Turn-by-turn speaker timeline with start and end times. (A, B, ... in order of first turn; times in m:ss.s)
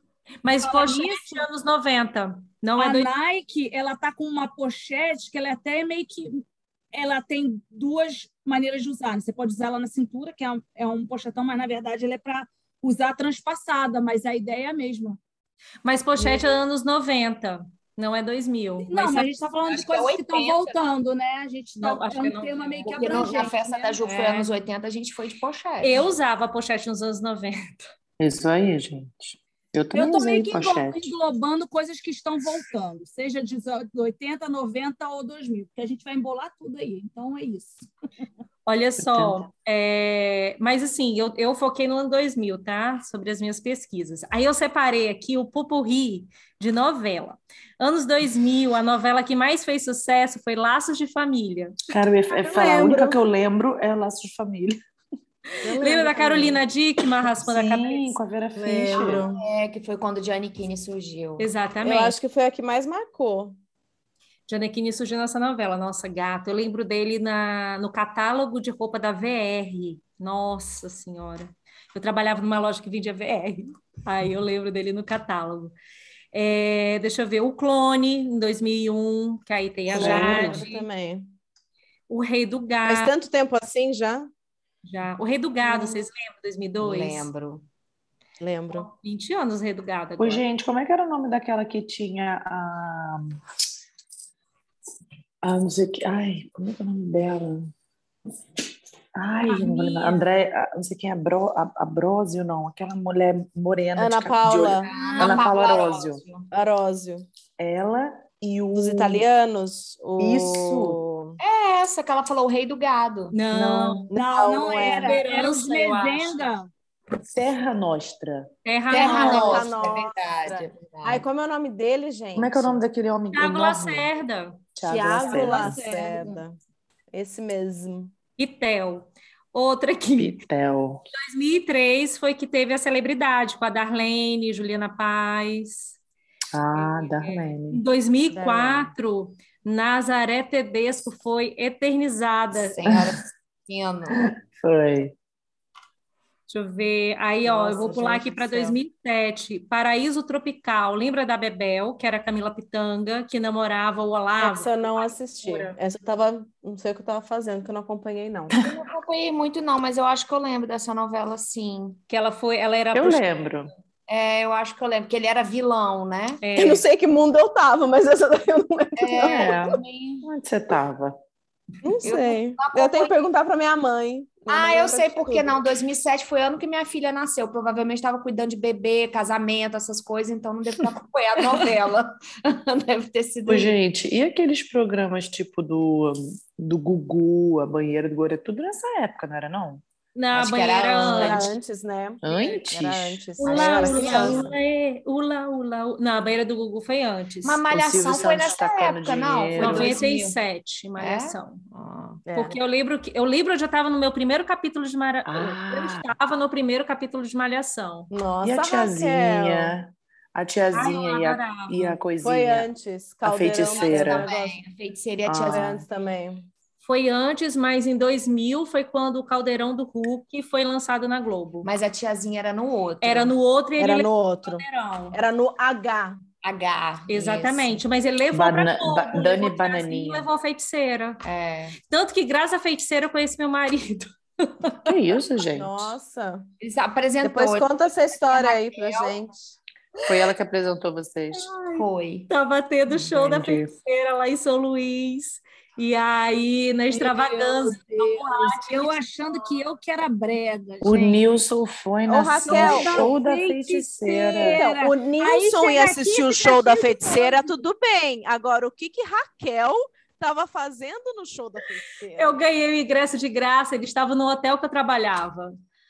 0:00.4-0:03.1 A
0:00.6-0:01.5 B
0:02.8-0:15.2 B
0:15.8-0:19.3 A
0:18.8-0:24.0 B
0:19.6-0:20.8 C
0:21.8-0:23.3 A
0:22.8-0:26.0 C
0:24.0-0:24.5 A
0:25.8-0:27.8 A
0:28.2-0:31.1 D
0:29.9-0:37.8 B
0:38.7-0:51.8 A
0:39.0-0:39.4 D
0:51.9-0:54.8 D
0:52.4-0:53.2 E
0:55.6-0:56.6 E
0:55.7-0:58.2 A
0:57.4-0:59.3 D
0:58.6-0:59.4 E
0:59.0-1:01.5 C
1:01.4-1:02.2 A
1:01.8-1:03.6 E
1:04.5-1:15.7 A
1:16.3-1:20.9 A
1:19.9-1:21.3 E
1:19.9-1:20.6 D
1:22.1-1:23.1 A
1:22.8-1:24.3 E
1:24.8-1:27.3 A
1:26.8-1:27.6 C
1:28.4-1:28.9 E
1:28.7-1:30.4 A
1:30.2-1:33.4 D
1:35.4-1:37.7 D
1:39.2-1:46.2 D
1:39.5-1:40.2 A
1:44.0-1:44.9 E
1:44.8-1:46.5 C
1:44.9-1:45.4 B
1:46.5-1:47.3 E
1:47.6-1:49.2 D
1:48.7-1:51.4 E
1:50.2-1:51.0 D
1:51.4-1:53.4 C
1:53.3-1:54.1 A
1:53.5-1:54.1 D
1:54.1-1:55.2 E
1:54.1-1:56.7 B
1:54.8-1:56.5 A
1:57.2-1:58.5 D
1:58.6-1:59.7 A
1:58.9-2:01.2 C
1:58.9-2:02.8 E
2:02.4-2:04.1 D
2:03.3-2:04.6 A
2:04.8-2:05.8 D
2:04.9-2:06.6 E
2:05.2-2:06.4 B
2:07.1-2:08.1 E
2:08.4-2:10.4 A
2:10.2-2:11.0 D
2:11.1-2:16.0 A
2:16.5-2:17.8 D
2:16.8-2:22.8 A
2:18.3-2:18.9 E
2:22.5-2:24.3 C
2:22.9-2:23.2 D
2:24.1-2:25.2 D
2:26.5-2:35.8 A
2:27.4-2:28.8 E
2:34.4-2:38.6 E
2:38.6-2:42.0 C
2:42.1-2:43.5 A
2:42.9-2:43.7 D
2:44.1-2:46.5 C
2:46.4-2:46.8 A
2:46.6-2:49.6 E
2:49.0-2:50.2 C
2:49.2-2:51.2 D
2:51.8-2:55.6 E
2:52.0-2:53.2 C
2:54.5-3:03.8 C
3:03.5-3:09.8 D
3:10.2-3:11.5 A
3:10.3-3:11.5 C
3:11.1-3:14.5 E
3:12.2-3:13.2 D
3:13.4-3:17.6 A
3:13.5-3:14.5 C
3:14.0-3:14.4 D
3:17.4-3:20.4 C
3:17.7-3:20.0 D
3:19.6-3:21.6 A
3:21.0-3:22.2 C
3:22.3-3:22.6 E
3:22.3-3:28.1 A
3:25.3-3:26.1 D
3:28.1-3:29.8 E
3:28.4-3:32.7 D
3:30.7-3:32.0 A
3:32.2-3:34.6 E
3:33.2-3:34.3 D
3:33.7-3:35.7 C
3:35.2-3:35.8 D
3:35.5-3:36.5 E
3:36.8-3:41.7 A
3:41.6-3:43.3 C
3:43.0-3:45.2 A
3:43.8-3:46.2 E
3:46.4-3:47.8 C
3:47.1-3:51.2 A
3:48.3-3:50.3 D
3:51.2-3:51.8 C
3:51.8-3:55.0 A
3:54.9-3:56.0 D
3:55.6-3:56.5 E
3:56.6-3:59.2 C
3:57.2-3:59.6 E
4:00.1-4:01.5 D
4:01.3-4:09.0 A
4:01.7-4:02.3 C
4:02.9-4:03.7 D
4:06.9-4:11.3 B
4:10.8-4:14.6 D
4:12.1-4:13.1 E
4:12.4-4:17.6 B
4:14.4-4:22.4 E
4:22.2-4:25.5 A